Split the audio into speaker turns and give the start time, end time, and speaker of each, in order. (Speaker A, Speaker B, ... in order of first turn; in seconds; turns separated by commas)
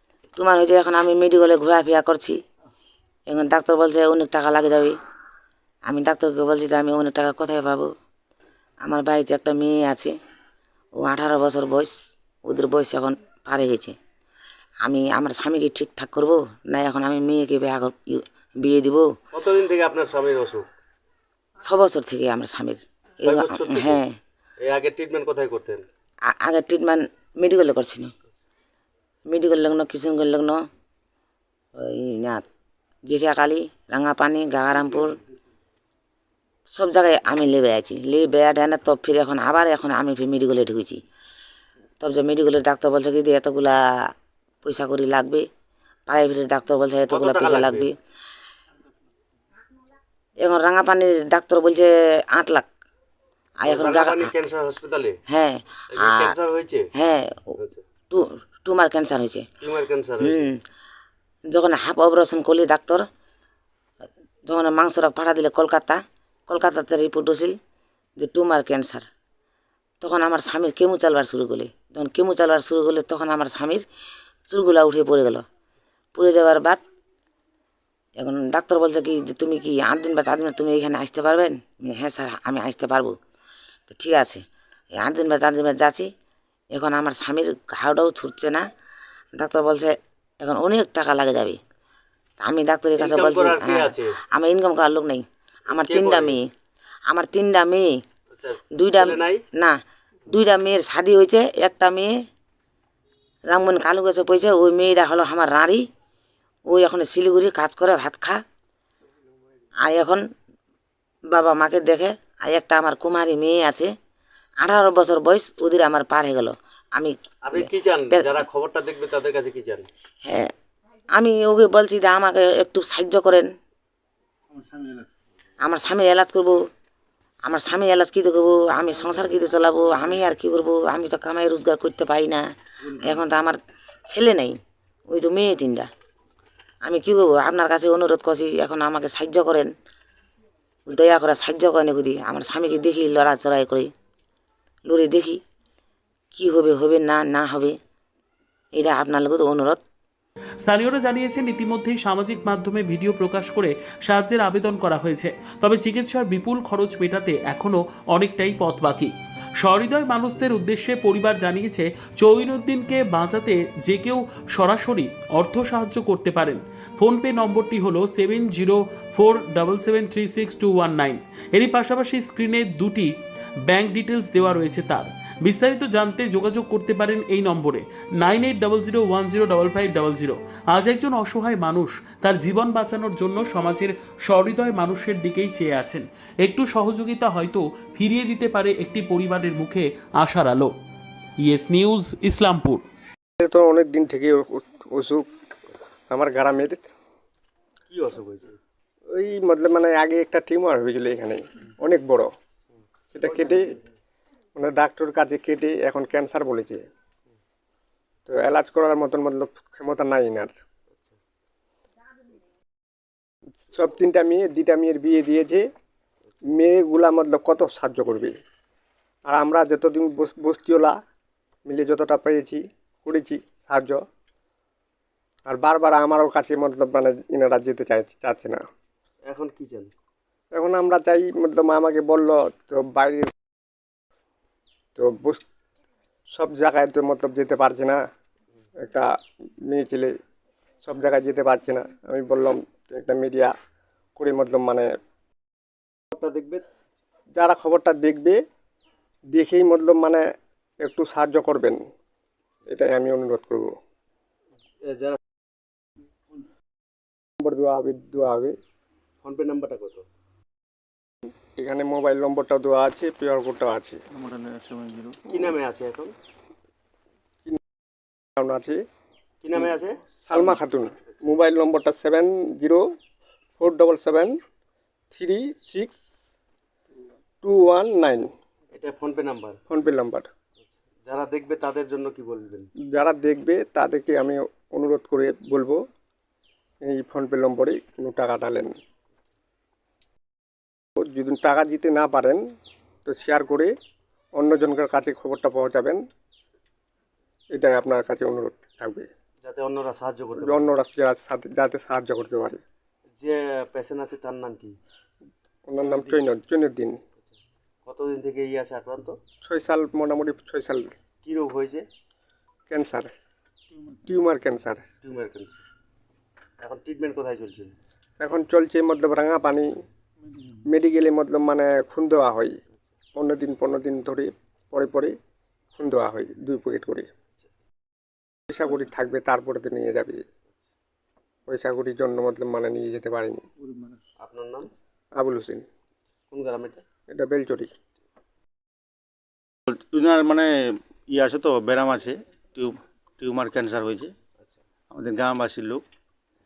Speaker A: 0.3-2.4, Speaker A: 3.3-5.0, Speaker A: 5.8-7.9, Speaker A: 8.8-10.1, Speaker A: 11.0-11.9, Speaker A: 12.4-13.9, Speaker A: 14.8-19.1, Speaker B: 19.3-20.6, Speaker A: 21.6-24.1, Speaker B: 23.2-24.0, Speaker B: 24.6-25.8, Speaker A: 26.3-28.1, Speaker A: 29.3-30.6, Speaker A: 31.8-32.4, Speaker A: 33.0-35.1, Speaker A: 36.7-41.0, Speaker A: 42.0-44.1, Speaker A: 44.6-45.5, Speaker A: 46.1-47.9, Speaker B: 47.1-47.9, Speaker A: 50.4-52.6, Speaker A: 53.6-54.3, Speaker B: 53.6-55.2, Speaker A: 55.3-56.3, Speaker B: 55.9-56.9, Speaker A: 56.9-57.5, Speaker B: 57.6-57.8, Speaker A: 58.1-59.5, Speaker B: 59.6-60.5, Speaker A: 60.2-60.6, Speaker A: 61.5-63.0, Speaker A: 64.5-67.5, Speaker A: 68.2-69.0, Speaker A: 70.0-73.8, Speaker A: 74.5-75.4, Speaker A: 76.2-76.8, Speaker A: 78.2-83.2, Speaker A: 83.9-84.4, Speaker A: 84.9-86.1, Speaker A: 86.7-88.6, Speaker A: 89.4-91.6, Speaker A: 92.4-96.5, Speaker B: 93.0-94.1, Speaker B: 95.7-96.4, Speaker A: 97.1-97.9, Speaker B: 98.4-99.4, Speaker A: 98.8-99.8, Speaker A: 100.3-102.1, Speaker A: 103.5-105.8, Speaker A: 106.7-108.4, Speaker A: 109.8-110.2, Speaker A: 111.3-113.9, Speaker A: 114.6-118.4, Speaker B: 117.4-119.9, Speaker A: 120.2-120.5, Speaker A: 121.1-123.5, Speaker A: 125.6-126.6, Speaker A: 127.5-134.6, Speaker A: 135.1-135.9, Speaker A: 136.8-139.7, Speaker A: 140.9-143.9, Speaker A: 144.9-145.4, Speaker A: 146.3-147.8, Speaker A: 148.7-149.8, Speaker C: 150.6-173.1, Speaker C: 173.7-190.7, Speaker C: 191.4-192.8, Speaker D: 193.4-195.2, Speaker D: 196.1-196.8, Speaker B: 197.9-198.6, Speaker D: 199.1-202.3, Speaker D: 203.1-203.8, Speaker B: 203.4-203.7, Speaker D: 204.6-206.8, Speaker D: 208.3-210.5, Speaker D: 213.7-215.7, Speaker D: 216.5-218.3, Speaker D: 219.2-220.9, Speaker D: 221.7-224.0, Speaker D: 225.5-228.6, Speaker B: 229.3-229.9, Speaker D: 230.5-233.3, Speaker D: 234.9-235.4, Speaker D: 236.3-238.0, Speaker D: 238.8-239.1, Speaker D: 239.6-240.2, Speaker D: 240.8-243.5, Speaker D: 244.2-244.9, Speaker B: 246.1-246.6, Speaker D: 247.3-248.4, Speaker D: 249.3-250.2, Speaker D: 250.8-251.8, Speaker D: 252.7-253.7, Speaker B: 254.8-255.2, Speaker D: 257.4-258.6, Speaker B: 259.2-260.0, Speaker D: 261.6-264.0, Speaker E: 264.1-265.2, Speaker B: 265.3-266.1, Speaker D: 268.4-268.8, Speaker B: 269.4-270.6, Speaker D: 270.2-272.9, Speaker D: 273.6-274.4, Speaker D: 275.1-276.0, Speaker D: 277.4-278.3, Speaker B: 278.7-279.6, Speaker D: 279.7-280.3, Speaker B: 281.1-282.7, Speaker D: 282.9-285.8, Speaker D: 286.8-288.7, Speaker D: 291.0-292.4, Speaker D: 293.1-293.7, Speaker D: 294.4-296.0, Speaker D: 297.5-299.1, Speaker B: 299.4-300.7, Speaker D: 300.4-302.6, Speaker B: 303.2-304.7, Speaker D: 305.7-307.0, Speaker B: 307.9-309.1, Speaker D: 309.4-310.9, Speaker B: 311.2-311.8, Speaker D: 312.7-313.1, Speaker D: 314.0-314.8, Speaker B: 315.0-315.6, Speaker B: 316.6-317.7, Speaker D: 318.2-319.7, Speaker D: 320.6-322.6, Speaker D: 323.1-325.1, Speaker D: 325.8-327.1, Speaker D: 328.5-330.2, Speaker D: 331.5-333.4, Speaker B: 334.2-334.6, Speaker D: 335.1-335.6, Speaker B: 336.3-336.8, Speaker D: 337.1-337.7, Speaker E: 339.7-340.5, Speaker E: 341.1-344.1, Speaker E: 344.9-345.8